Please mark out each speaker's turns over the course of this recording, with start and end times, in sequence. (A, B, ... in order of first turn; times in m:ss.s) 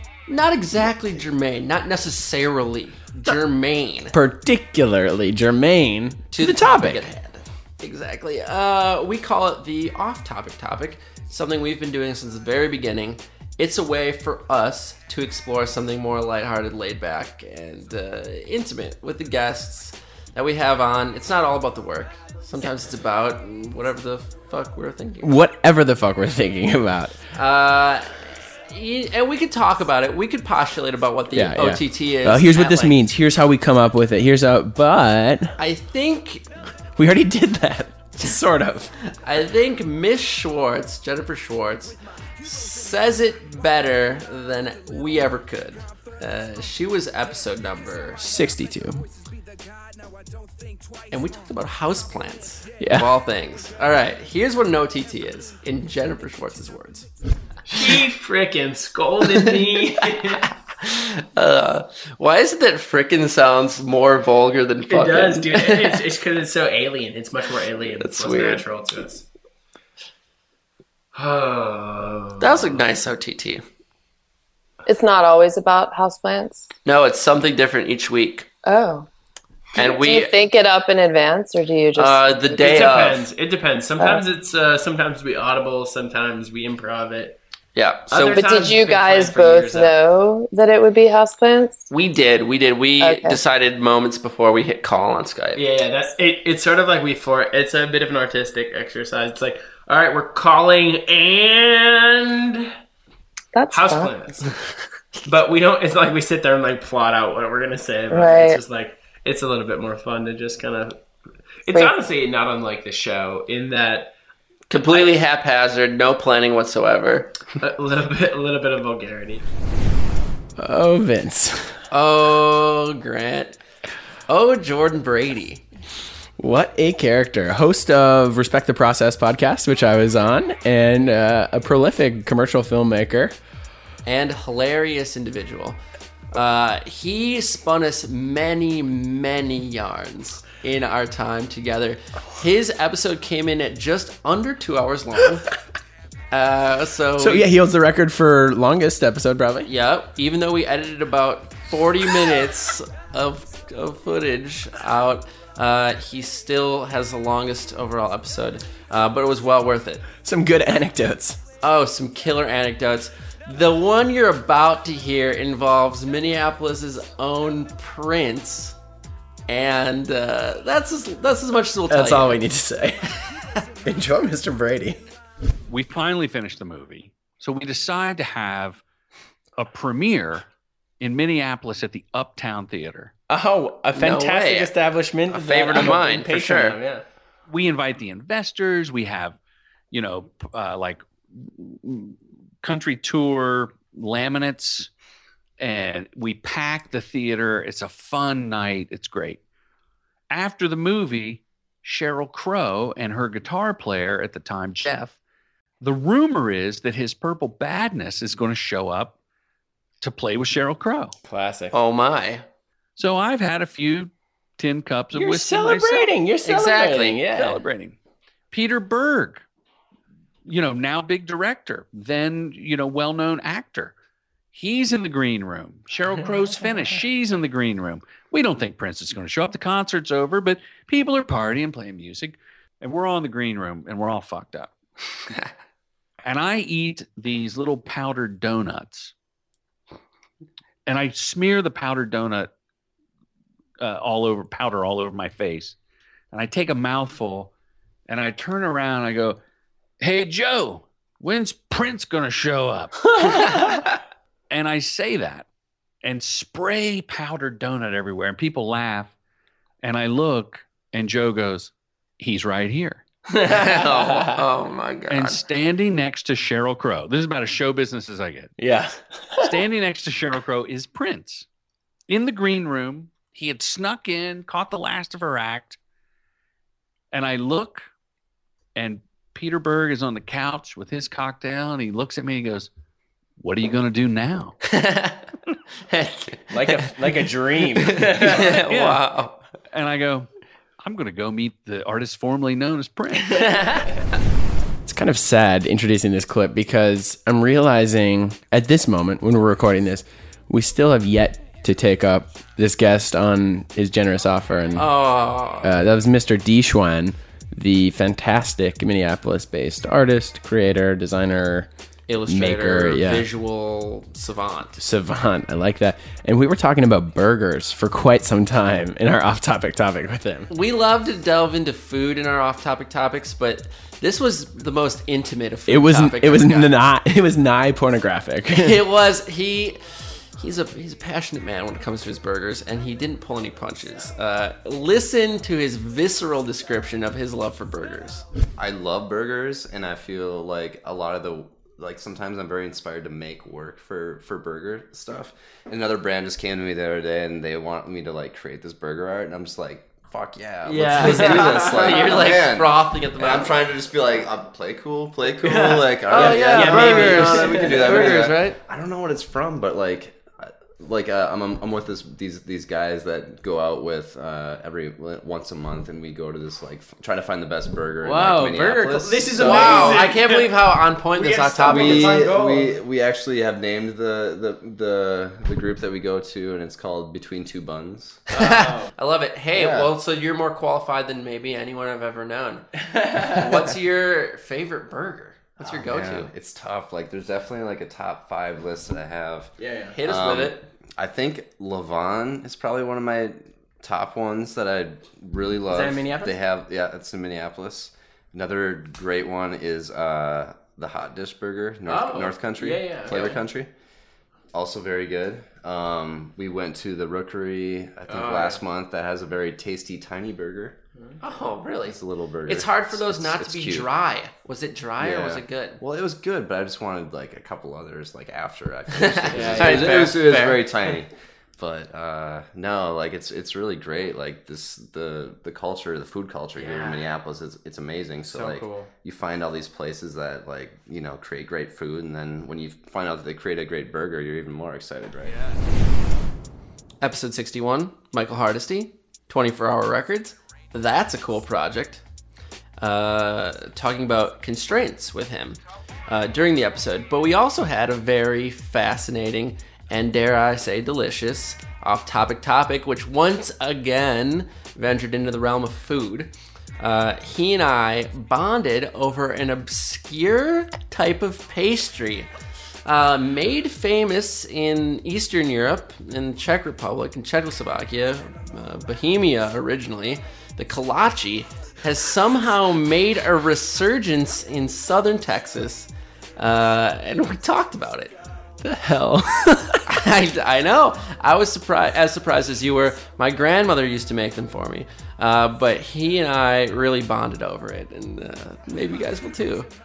0:00.3-0:04.1 A
0:04.1-0:07.0 B
0:06.3-0:25.3 A
0:25.2-0:27.2 B
0:27.4-0:33.0 A
0:31.3-0:35.6 B
0:35.6-0:36.5 A
0:37.0-0:38.9 B
0:39.2-0:48.2 A
0:48.2-0:49.0 B
0:51.1-0:57.1 A
0:52.8-0:53.1 B
0:57.6-1:00.4 B
1:00.4-1:06.0 A
1:04.9-1:09.3 B
1:07.9-1:08.6 A
1:11.2-1:12.8 B
1:12.4-1:13.6 A
1:14.8-1:16.7 C
1:16.8-1:18.5 A
1:18.6-1:19.1 C
1:19.8-1:22.5 C
1:19.8-1:20.5 A
1:22.0-1:23.3 A
1:22.5-1:27.4 B
1:24.0-1:24.3 C
1:27.8-1:28.6 A
1:28.1-1:30.0 B
1:28.3-1:31.9 C
1:31.9-1:35.6 A
1:33.0-1:33.4 C
1:35.6-1:42.7 B
1:43.5-1:44.2 C
1:43.7-1:44.4 B
1:45.3-1:51.0 B
1:48.1-1:48.6 C
1:51.6-1:54.1 B
1:54.7-1:57.4 A
1:57.6-1:59.4 B
2:00.6-2:01.8 B
2:01.9-2:03.6 A
2:04.3-2:05.6 A
2:06.4-2:13.3 B
2:14.0-2:15.8 A
2:16.3-2:25.5 A
2:26.3-2:27.5 A
2:27.2-2:29.7 B
2:29.7-2:40.0 A
2:40.2-2:41.4 B
2:41.6-2:48.8 A
2:49.5-2:52.4 A
2:51.9-2:53.1 B
2:53.8-2:55.0 B
2:55.7-2:58.8 D
2:59.6-3:00.4 D
3:01.0-3:03.1 D
3:03.3-3:07.0 B
3:04.0-3:04.7 A
3:05.3-3:06.8 A
3:07.5-3:09.4 D
3:09.9-3:14.9 D
3:15.6-3:19.4 D
3:20.3-3:25.2 D
3:25.8-3:29.1 D
3:30.0-3:31.1 D
3:31.2-3:31.8 B
3:31.7-3:32.4 A
3:33.0-3:36.1 D
3:35.1-3:37.6 B
3:36.4-3:37.3 A
3:37.3-3:38.0 D
3:38.5-3:39.4 D
3:40.5-3:43.9 D
3:44.5-3:54.7 D
3:56.2-3:59.1 D
4:00.9-4:02.5 D
4:03.8-4:05.8 D
4:06.3-4:07.5 D
4:08.1-4:09.4 D
4:10.0-4:13.0 D
4:13.1-4:13.7 B
4:14.5-4:15.5 D
4:16.0-4:19.1 D
4:19.8-4:23.0 D
4:23.4-4:24.4 B
4:23.5-4:25.4 A
4:25.1-4:28.5 D
4:28.6-4:29.5 B
4:29.4-4:31.5 D
4:32.1-4:35.8 D
4:37.1-4:37.9 D
4:38.8-4:42.7 D
4:43.4-4:44.5 D
4:44.7-4:45.2 A
4:45.9-4:46.9 A
4:46.5-4:48.5 B
4:47.9-4:49.4 A
4:48.7-4:49.0 D
4:49.7-4:50.3 D
4:50.8-4:53.4 D
4:53.3-4:53.9 A
4:54.8-5:04.9 B
5:04.8-5:05.7 A
5:05.6-5:11.7 B
5:12.1-5:14.8 A
5:12.3-5:13.2 B
5:14.8-5:20.5 B
5:20.5-5:26.7 A
5:25.7-5:28.8 B
5:28.6-5:38.2 A
5:38.6-6:10.4 E
5:50.6-5:52.1 B
5:50.9-5:53.6 A
5:55.4-5:58.3 B
5:56.1-5:58.6 A
6:08.0-6:10.5 B
6:09.3-6:12.3 A
6:11.2-6:12.7 B
6:11.6-6:18.2 E
6:18.3-6:26.3 A
6:18.4-6:18.9 B
6:19.5-6:19.9 E
6:22.8-6:23.5 B
6:25.6-6:29.5 E
6:29.6-6:30.0 B
6:29.9-6:30.6 A
6:30.0-6:43.7 E
6:35.7-6:36.4 B
6:41.9-6:42.4 A
6:42.6-6:43.4 B
6:44.5-6:50.8 E
6:48.1-6:48.6 B
6:51.2-6:55.8 A
6:51.8-6:53.9 E
6:55.0-7:15.4 E
6:58.9-7:00.6 A
6:59.3-7:00.5 B
7:06.6-7:07.0 B
7:08.3-7:08.9 B
7:17.0-7:22.0 A
7:22.8-7:42.3 A
7:42.9-7:58.2 A
7:58.6-7:59.8 B
7:59.9-8:09.7 A